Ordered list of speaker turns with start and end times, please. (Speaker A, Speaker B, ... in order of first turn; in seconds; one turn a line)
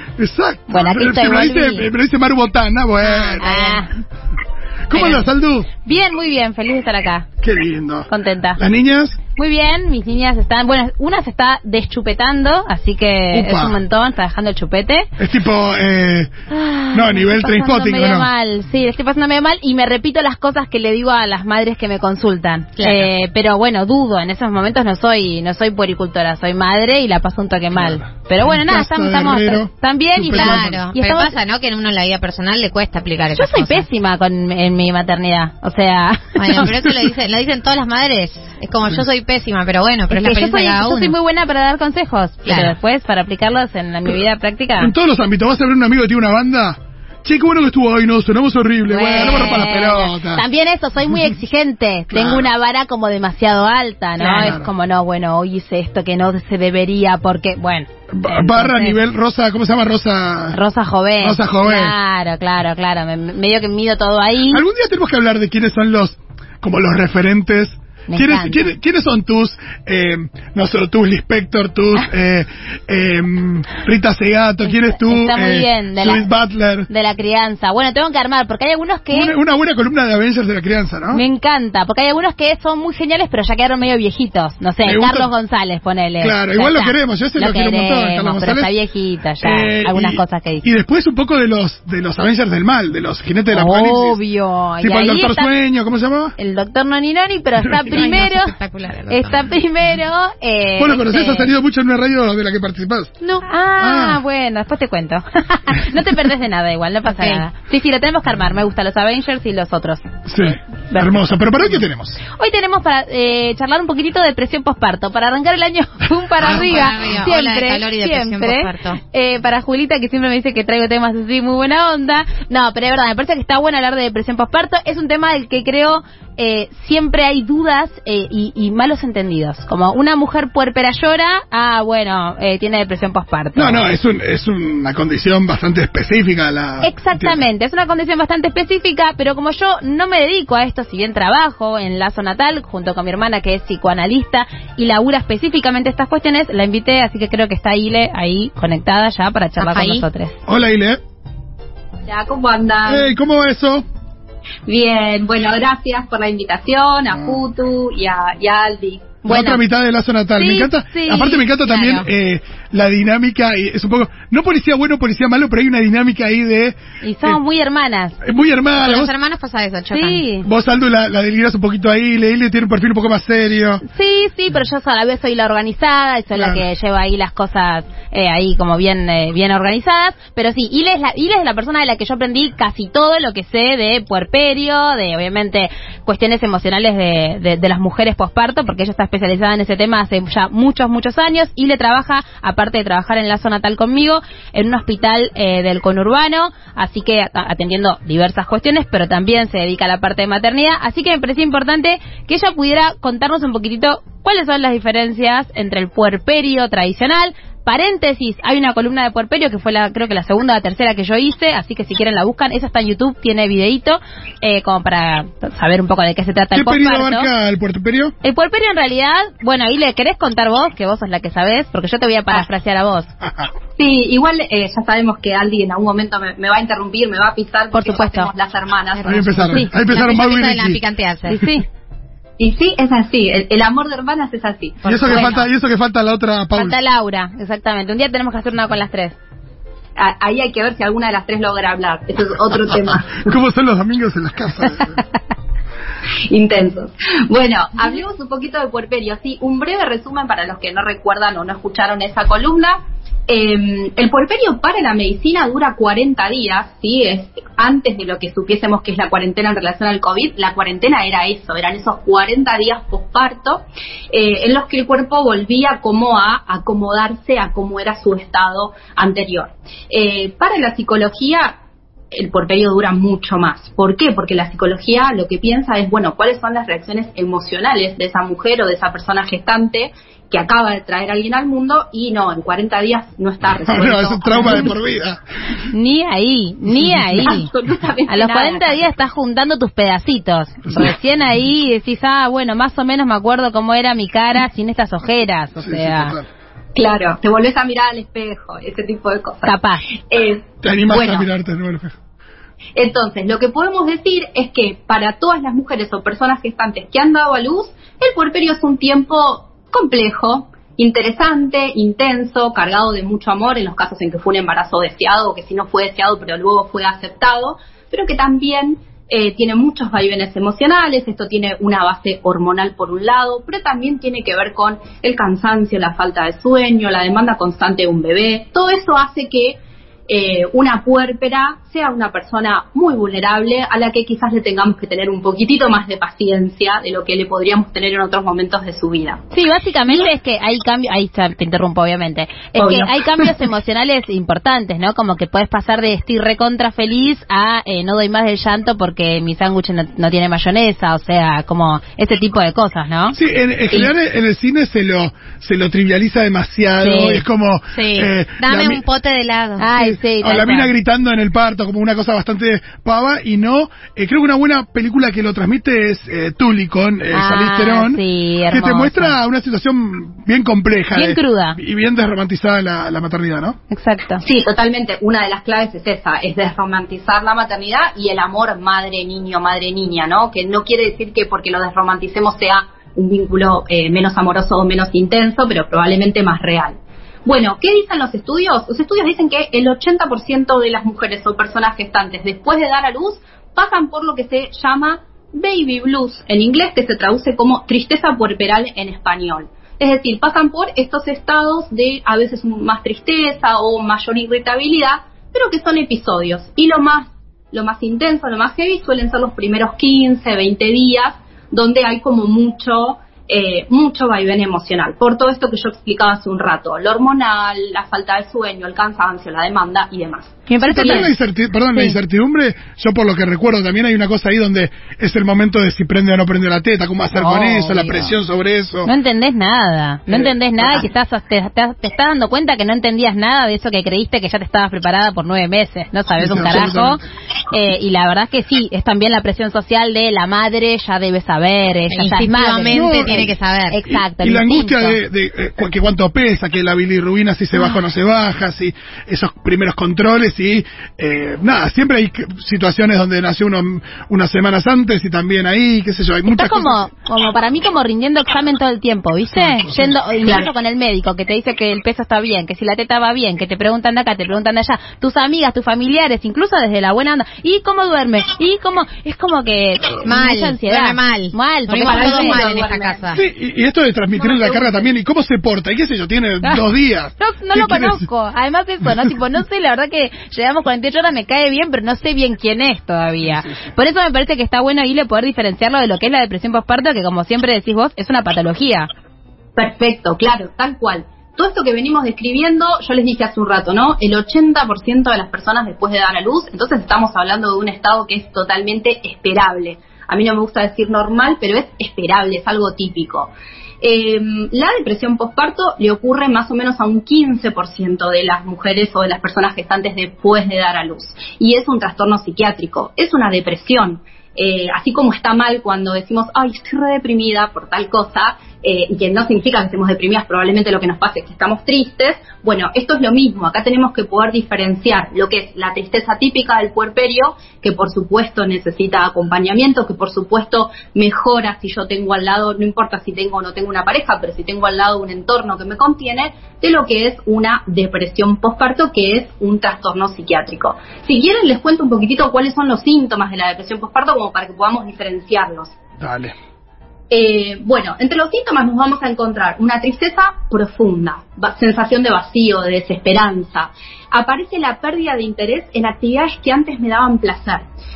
Speaker A: 0.2-3.9
Speaker B: 0.7-1.9
Speaker C: 3.0-3.8
Speaker B: 3.4-3.9
Speaker A: 4.9-5.7
Speaker B: 4.9-5.3
Speaker B: 5.8-7.3
Speaker A: 7.4-9.2
Speaker B: 8.1-8.6
Speaker B: 9.4-15.1
Speaker A: 13.3-13.8
Speaker A: 15.2-16.3
Speaker B: 16.5-31.3
Speaker A: 16.9-18.3
Speaker C: 22.8-23.1
Speaker A: 27.7-30.9
Speaker C: 30.2-33.9
Speaker B: 33.4-36.7
Speaker C: 36.4-41.1
Speaker B: 40.1-44.9
Speaker C: 42.5-42.7
Speaker A: 44.8-50.4
Speaker B: 48.9-59.0
Speaker A: 52.1-52.5
Speaker A: 54.2-54.7
Speaker A: 58.1-60.6
Speaker B: 60.5-64.6
Speaker A: 61.2-62.0
Speaker A: 64.5-76.9
Speaker B: 68.1-68.6
Speaker B: 74.9-76.2
Speaker B: 76.9-79.3
Speaker A: 79.1-81.2
Speaker B: 81.1-90.7
Speaker A: 84.8-85.3
Speaker A: 86.2-88.7
Speaker A: 89.4-94.2
Speaker B: 93.5-95.5
Speaker A: 94.8-96.4
Speaker B: 96.4-98.5
Speaker A: 97.6-98.1
Speaker C: 97.8-99.6
Speaker B: 99.1-101.5
Speaker A: 100.8-103.1
Speaker B: 103.4-111.2
Speaker A: 103.8-104.2
Speaker C: 107.2-107.4
Speaker A: 110.3-112.2
Speaker B: 112.3-133.9
Speaker C: 116.4-119.0
Speaker A: 133.6-137.4
Speaker B: 136.8-150.4
Speaker C: 149.6-150.0
Speaker A: 150.5-151.0
Speaker D: 152.1-153.1
Speaker A: 152.9-153.8
Speaker D: 154.7-159.2
Speaker A: 157.1-157.4
Speaker B: 159.2-159.6
Speaker A: 159.2-167.4
Speaker B: 160.4-161.9
Speaker C: 161.7-162.0
Speaker B: 167.0-168.2
Speaker A: 168.2-169.1
Speaker C: 168.8-170.2
Speaker B: 169.9-170.5
Speaker A: 170.4-173.8
Speaker B: 173.8-217.3
Speaker A: 176.3-176.6
Speaker A: 216.5-218.1
Speaker B: 218.2-223.1
Speaker D: 223.8-229.6
Speaker B: 227.7-228.3
Speaker C: 228.9-231.4
Speaker A: 229.0-230.8
Speaker B: 231.3-231.7
Speaker D: 232.4-235.3
Speaker C: 234.8-235.5
Speaker A: 234.9-236.8
Speaker B: 236.6-239.2
Speaker D: 240.0-243.3
Speaker A: 243.2-245.0
Speaker D: 246.3-271.6
Speaker D: 272.1-284.7
Speaker A: 283.6-285.2
Speaker B: 285.7-287.5
Speaker D: 287.2-288.9
Speaker B: 288.1-296.2
Speaker A: 295.6-296.3
Speaker D: 296.8-299.6
Speaker B: 299.4-299.9
Speaker D: 300.1-301.3
Speaker A: 300.6-301.9
Speaker D: 302.8-339.2
Speaker B: 339.3-353.2
Speaker D: 342.6-343.3
Speaker A: 353.1-358.8
Speaker B: 356.8-357.2
Speaker C: 357.7-359.7
Speaker B: 359.6-360.7
Speaker A: 359.8-373.6
Speaker B: 367.1-369.2
Speaker B: 370.9-371.6
Speaker B: 373.7-374.2
Speaker D: 374.2-421.1
Speaker B: 420.5-421.1
Speaker A: 420.6-428.9
Speaker B: 427.1-428.1
Speaker B: 428.9-445.0
Speaker A: 436.2-437.0
Speaker C: 441.9-443.8
Speaker A: 442.7-443.3
Speaker A: 443.9-456.9
Speaker B: 456.3-472.4
Speaker A: 459.3-459.9
Speaker C: 470.0-473.2
Speaker D: 471.8-473.2
Speaker A: 473.1-478.1
Speaker B: 474.2-474.6
Speaker B: 477.2-488.9
Speaker D: 489.6-503.3
Speaker D: 503.8-545.8
Speaker A: 546.0-546.3
Speaker D: 547.1-557.6